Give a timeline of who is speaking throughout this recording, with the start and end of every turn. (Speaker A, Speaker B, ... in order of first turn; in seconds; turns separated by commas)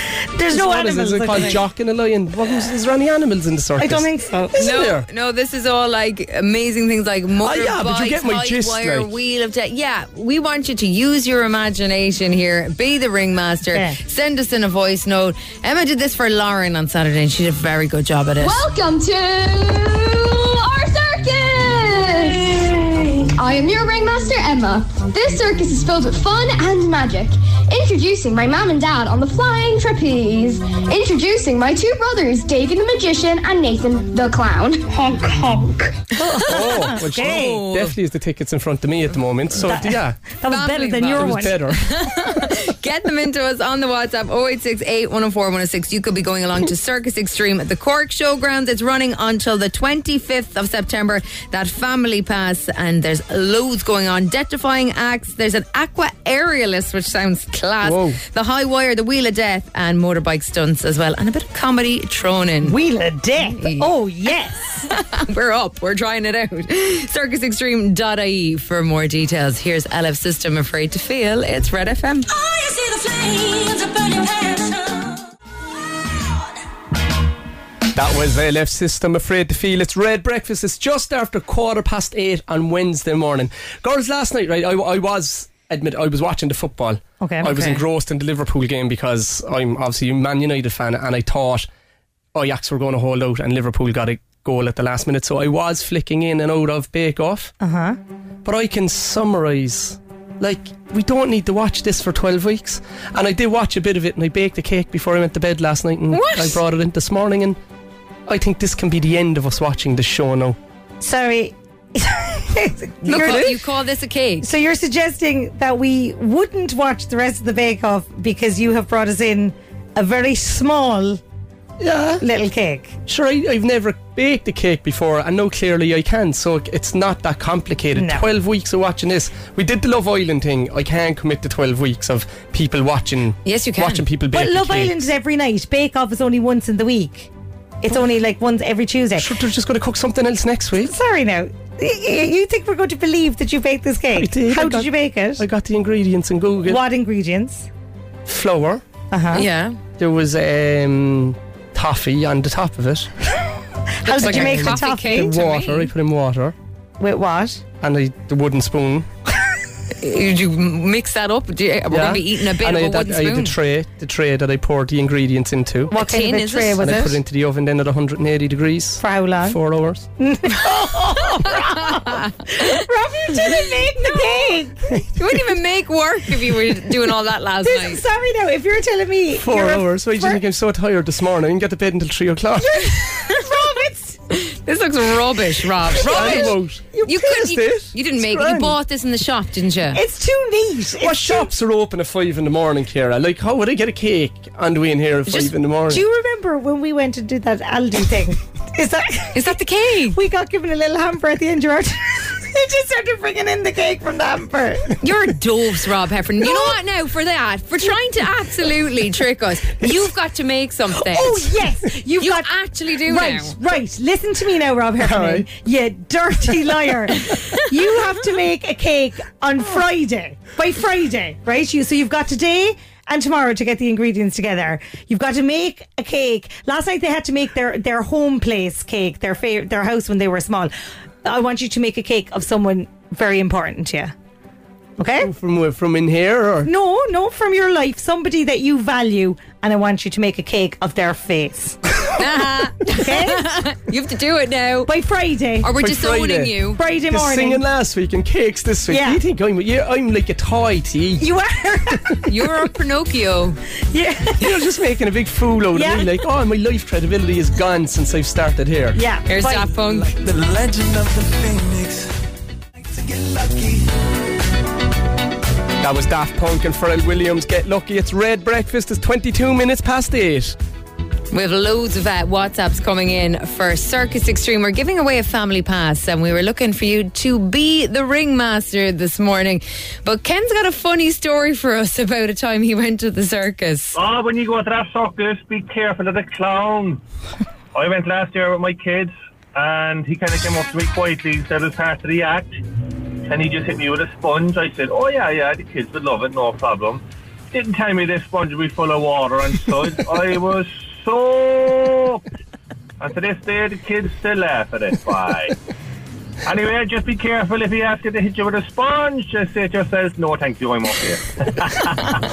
Speaker A: 0.3-1.6, Speaker B: 0.5-5.1, Speaker A: 3.8-4.5, Speaker C: 4.5-18.6, Speaker B: 7.4-9.1, Speaker D: 18.4-35.9, Speaker A: 36.2-37.6, Speaker C: 36.3-36.7, Speaker B: 36.5-40.2, Speaker C: 37.2-38.0, Speaker A: 39.6-41.6, Speaker C: 40.5-62.8, Speaker B: 41.1-41.8, Speaker B: 57.8-58.2, Speaker A: 62.6-64.9, Speaker C: 63.5-63.9, Speaker C: 64.9-72.3, Speaker B: 78.0-91.7, Speaker A: 87.2-87.8, Speaker B: 92.3-97.5, Speaker A: 97.6-98.0, Speaker B: 98.5-107.6, Speaker C: 106.1-106.6, Speaker B: 108.3-110.6, Speaker A: 111.0-113.6, Speaker C: 113.0-114.5, Speaker A: 114.4-121.2, Speaker B: 121.8-122.2, Speaker A: 122.2-123.0, Speaker B: 123.1-135.1, Speaker A: 128.0-128.2, Speaker C: 133.4-134.0, Speaker A: 134.3-137.3, Speaker A: 137.8-139.3, Speaker B: 139.2-140.9, Speaker A: 140.8-145.4, Speaker B: 144.2-146.8, Speaker A: 146.7-147.7, Speaker B: 148.3-148.8, Speaker A: 149.1-149.5, Speaker C: 149.3-149.8, Speaker B: 150.0-153.1, Speaker A: 154.0-155.4, Speaker C: 154.1-155.9, Speaker B: 154.2-156.6, Speaker A: 157.0-157.6, Speaker B: 157.8-159.1, Speaker C: 160.0-163.5, Speaker B: 161.9-165.9, Speaker A: 165.9-167.2, Speaker C: 165.9-166.9, Speaker B: 166.8-170.1, Speaker A: 169.0-169.6, Speaker A: 170.2-175.1, Speaker C: 175.2-178.0, Speaker A: 177.6-180.4, Speaker B: 179.4-182.8, Speaker A: 182.6-184.2, Speaker C: 184.3-190.0, Speaker A: 185.9-187.3, Speaker B: 186.1-188.8, Speaker A: 189.9-191.5, Speaker B: 191.0-196.0, Speaker A: 195.9-199.6, Speaker C: 199.3-200.2, Speaker A: 200.1-205.0, Speaker C: 205.0-211.6, Speaker A: 206.4-206.8, Speaker A: 211.0-230.7, Speaker C: 212.2-213.6, Speaker B: 215.0-215.5, Speaker A: 231.2-234.1, Speaker A: 235.0-235.3, Speaker B: 235.2-236.7, Speaker A: 236.7-241.8, Speaker C: 242.2-244.9, Speaker A: 242.9-243.5, Speaker A: 244.9-245.7, Speaker C: 245.6-246.8, Speaker B: 245.8-246.6, Speaker A: 246.8-247.6, Speaker B: 247.1-251.3, Speaker A: 248.9-249.2, Speaker A: 251.2-252.5, Speaker C: 252.3-253.6, Speaker A: 253.9-254.5, Speaker B: 254.4-259.0, Speaker A: 255.7-256.1, Speaker A: 258.9-259.7, Speaker C: 259.3-260.1, Speaker E: 260.1-262.1, Speaker E: 262.9-263.9, Speaker B: 265.8-270.6, Speaker C: 271.3-284.0, Speaker F: 283.9-287.0, Speaker F: 287.7-292.6, Speaker F: 293.3-302.2, Speaker F: 303.0-305.6, Speaker F: 306.4-312.2